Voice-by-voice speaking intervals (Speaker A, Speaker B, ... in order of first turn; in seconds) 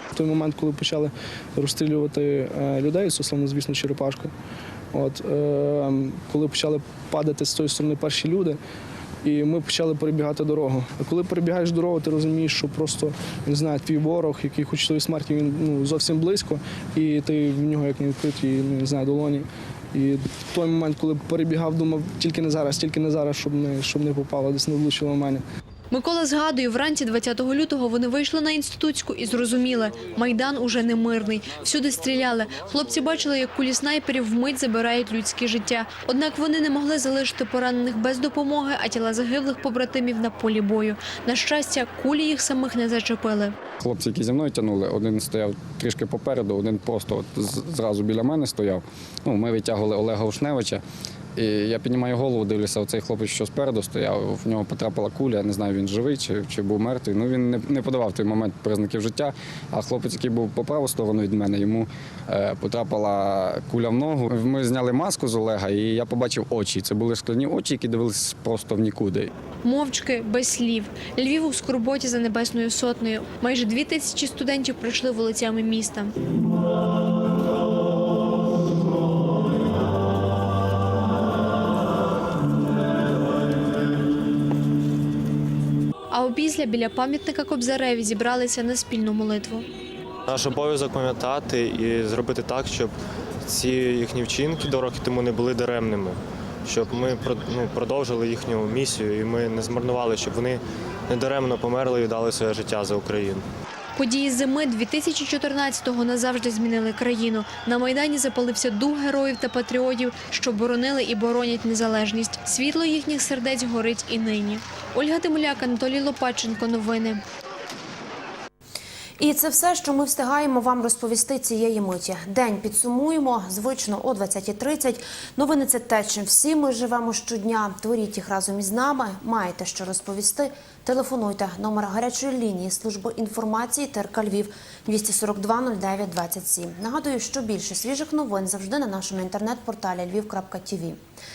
Speaker A: 0.1-4.3, 4.9-8.6, 9.2-25.4
Speaker B: 25.9-43.5, 69.6-76.1, 86.1-89.6, 104.0-117.2
Speaker C: 43.8-50.8, 51.4-69.3
Speaker D: 90.3-92.9, 93.5-103.4
Speaker E: 119.2-141.0